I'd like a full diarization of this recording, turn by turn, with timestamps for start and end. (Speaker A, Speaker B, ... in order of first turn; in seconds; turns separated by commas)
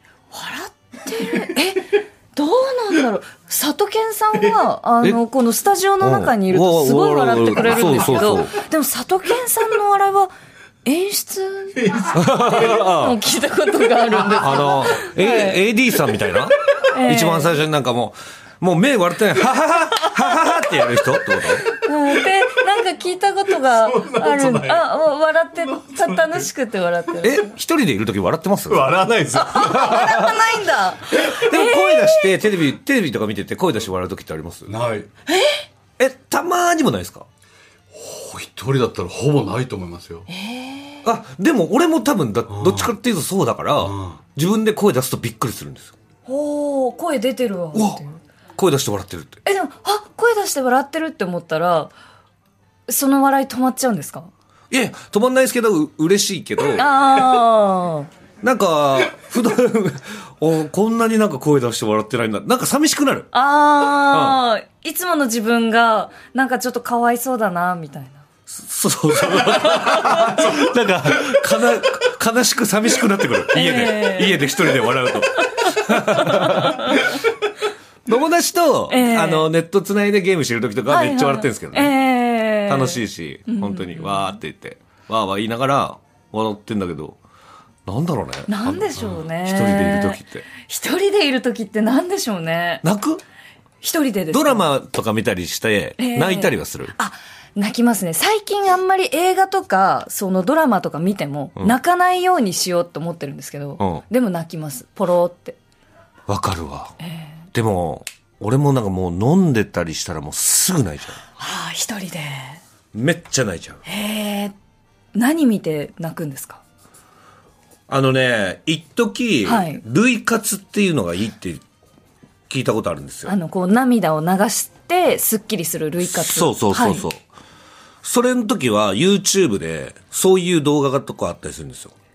Speaker A: 0.3-10.3, Speaker B: 6.0-8.5, Speaker A: 10.8-15.6, Speaker B: 12.1-13.2, Speaker B: 14.3-21.7, Speaker A: 16.9-17.6, Speaker A: 21.6-27.5, Speaker B: 27.2-30.4, Speaker C: 28.9-29.5, Speaker A: 29.3-32.3, Speaker B: 31.1-34.8, Speaker C: 34.7-35.1, Speaker A: 35.3-35.6, Speaker B: 36.0-37.2, Speaker C: 37.9-40.3, Speaker A: 40.3-41.0, Speaker B: 41.0-45.9, Speaker A: 46.2-48.2, Speaker B: 47.7-48.0, Speaker B: 48.6-49.4, Speaker A: 49.4-51.9, Speaker A: 52.9-54.3, Speaker B: 54.7-57.2, Speaker A: 56.7-58.1, Speaker B: 58.4-63.3, Speaker A: 63.3-68.2, Speaker B: 64.1-64.4, Speaker B: 68.5-77.1, Speaker A: 69.8-70.5, Speaker A: 73.5-74.6, Speaker A: 75.1-77.2, Speaker B: 78.0-82.0, Speaker A: 78.9-79.5, Speaker A: 80.9-84.3, Speaker B: 82.7-87.2, Speaker B: 87.8-90.4, Speaker A: 88.5-92.8, Speaker B: 92.8-93.2, Speaker A: 93.8-94.6, Speaker B: 94.3-96.9, Speaker A: 96.0-105.6, Speaker B: 106.3-106.9, Speaker A: 107.0-107.3, Speaker B: 107.5-111.2, Speaker A: 111.4-112.6, Speaker B: 112.9-113.8, Speaker A: 113.8-114.5, Speaker A: 115.1-116.6, Speaker B: 117.9-121.6, Speaker A: 119.4-119.8, Speaker B: 122.5-123.3, Speaker A: 123.2-127.1, Speaker B: 126.0-127.2, Speaker B: 128.0-131.9